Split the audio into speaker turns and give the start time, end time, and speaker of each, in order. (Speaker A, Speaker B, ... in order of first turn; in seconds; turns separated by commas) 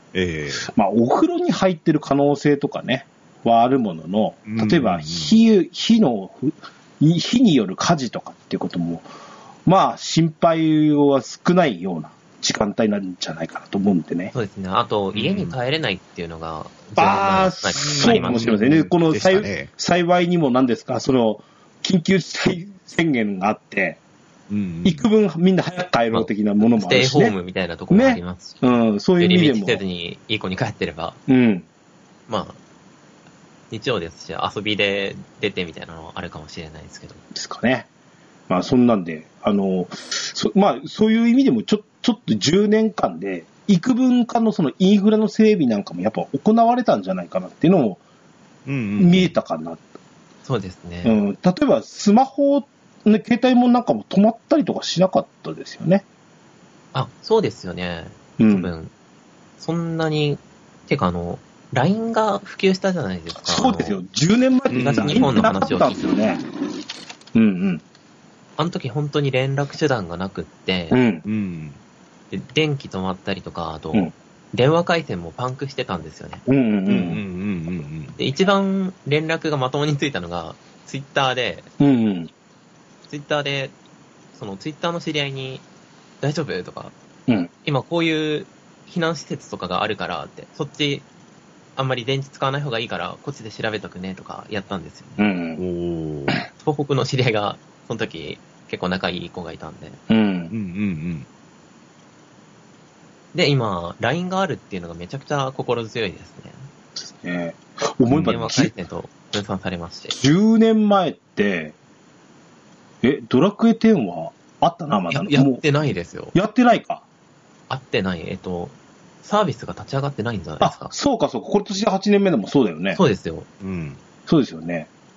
Speaker A: 0.1-0.7, Speaker B: 0.6-9.1, Speaker A: 4.5-5.4, Speaker B: 9.7-14.3, Speaker C: 14.3-18.5, Speaker A: 15.1-15.6, Speaker B: 17.0-24.0, Speaker A: 17.8-19.7, Speaker A: 24.5-25.0, Speaker B: 24.9-27.4, Speaker C: 26.1-31.2, Speaker B: 27.9-29.8, Speaker B: 31.3-31.7, Speaker C: 32.3-32.6, Speaker C: 33.7-37.2, Speaker B: 37.3-37.9, Speaker B: 38.5-48.0, Speaker A: 48.7-49.3, Speaker B: 49.0-49.8, Speaker C: 50.5-51.2, Speaker B: 51.0-56.0, Speaker C: 56.9-58.9, Speaker B: 58.4-58.7, Speaker C: 59.6-64.0, Speaker B: 63.4-66.4, Speaker A: 64.7-65.5, Speaker C: 64.8-66.1, Speaker B: 67.3-67.8, Speaker C: 68.6-71.0, Speaker B: 70.9-71.2, Speaker A: 71.2-71.8, Speaker C: 72.3-76.4, Speaker B: 76.5-77.2, Speaker A: 76.9-78.2, Speaker C: 78.2-81.7, Speaker B: 81.8-82.3, Speaker C: 83.1-83.8, Speaker C: 84.3-85.7, Speaker C: 86.2-86.9, Speaker C: 87.7-91.1, Speaker C: 91.8-95.2, Speaker B: 95.2-95.6, Speaker A: 95.6-96.4, Speaker C: 96.6-100.0, Speaker B: 100.1-100.5, Speaker A: 100.5-101.3, Speaker C: 103.3-106.6, Speaker B: 107.0-108.7, Speaker A: 108.1-108.4, Speaker C: 108.2-110.2, Speaker B: 110.1-111.7, Speaker B: 113.0-115.6, Speaker C: 115.1-116.3, Speaker B: 116.3-117.0, Speaker C: 117.7-120.9, Speaker B: 120.6-123.0, Speaker C: 122.9-123.5, Speaker A: 123.6-124.0, Speaker B: 124.3-124.9